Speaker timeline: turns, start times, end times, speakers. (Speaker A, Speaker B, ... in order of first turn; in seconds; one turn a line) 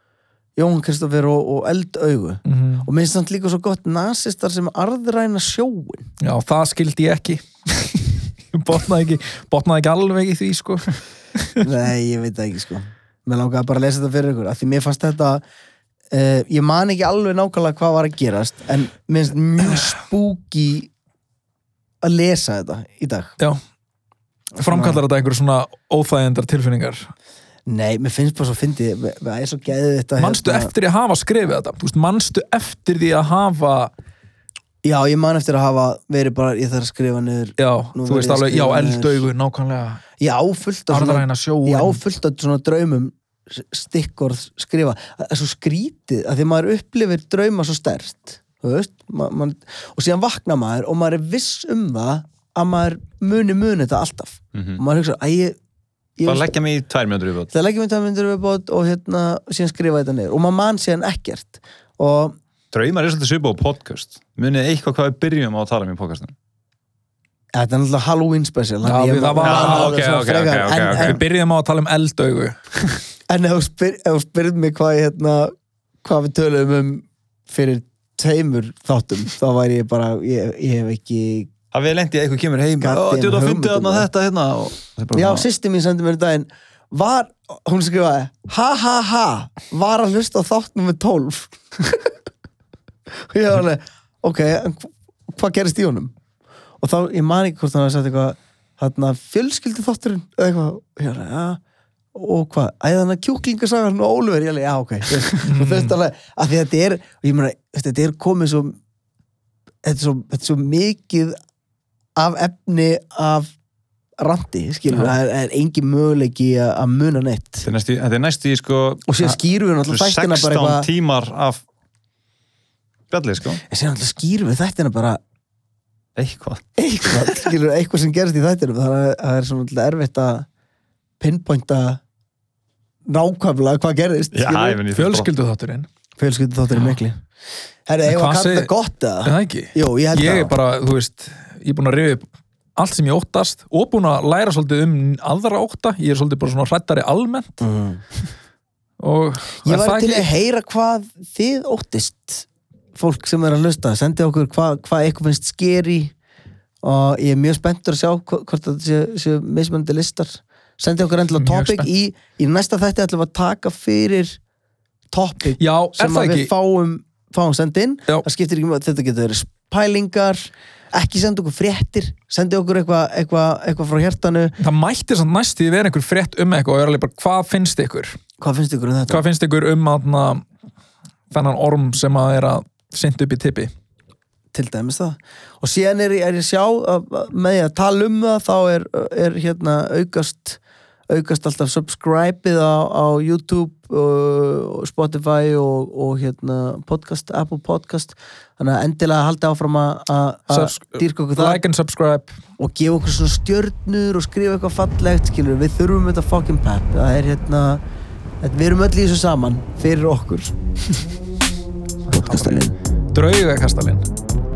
Speaker A: 0.6-6.1
Speaker B: 2.5-2.9
Speaker B: 6.2-11.7
Speaker A: 11.6-15.4
Speaker A: 16.1-20.9
Speaker A: 22.0-23.3
Speaker B: 24.6-27.1
Speaker A: 24.6-25.0
Speaker A: 27.7-30.7
Speaker B: 30.2-33.9
Speaker A: 34.8-39.3
Speaker B: 37.6-40.0
Speaker A: 40.2-55.6
Speaker B: 40.9-42.0
Speaker C: 54.5-54.8
Speaker A: 56.2-56.5
Speaker C: 56.3-57.5
Speaker A: 57.5-62.4
Speaker C: 62.7-66.3
Speaker A: 67.5-71.2
Speaker B: 68.8-70.3
Speaker C: 69.4-71.2
Speaker B: 70.8-72.6
Speaker A: 73.3-81.5
Speaker C: 81.7-85.5
Speaker A: 82.8-84.1
Speaker A: 85.1-91.6
Speaker A: 93.1-96.1
Speaker A: 96.8-101.6
Speaker A: 102.1-108.8
Speaker B: 105.4-106.0
Speaker A: 109.8-111.4
Speaker A: 112.2-113.5
Speaker A: 114.2-117.7
Speaker B: 114.9-115.1
Speaker C: 117.6-121.6
Speaker A: 119.1-120.9
Speaker C: 123.1-123.6
Speaker A: 123.6-125.2
Speaker C: 126.2-127.4
Speaker A: 126.8-130.5
Speaker A: 131.2-132.0
Speaker A: 133.1-134.8
Speaker C: 134.3-135.3
Speaker B: 134.9-135.9
Speaker A: 136.2-137.2
Speaker A: 137.9-140.5
Speaker B: 138.1-138.7
Speaker B: 139.2-147.7
Speaker A: 147.6-148.0
Speaker B: 149.0-150.3
Speaker A: 149.7-156.1
Speaker A: 156.8-164.4
Speaker B: 161.3-161.9
Speaker A: 165.1-174.6
Speaker B: 165.6-166.5
Speaker B: 174.6-178.2
Speaker A: 178.4-179.2
Speaker B: 179.1-180.4
Speaker B: 181.3-183.7
Speaker A: 184.5-201.6
Speaker B: 200.5-202.4
Speaker A: 202.6-207.8
Speaker A: 208.4-210.6
Speaker B: 212.1-214.1
Speaker A: 212.2-212.7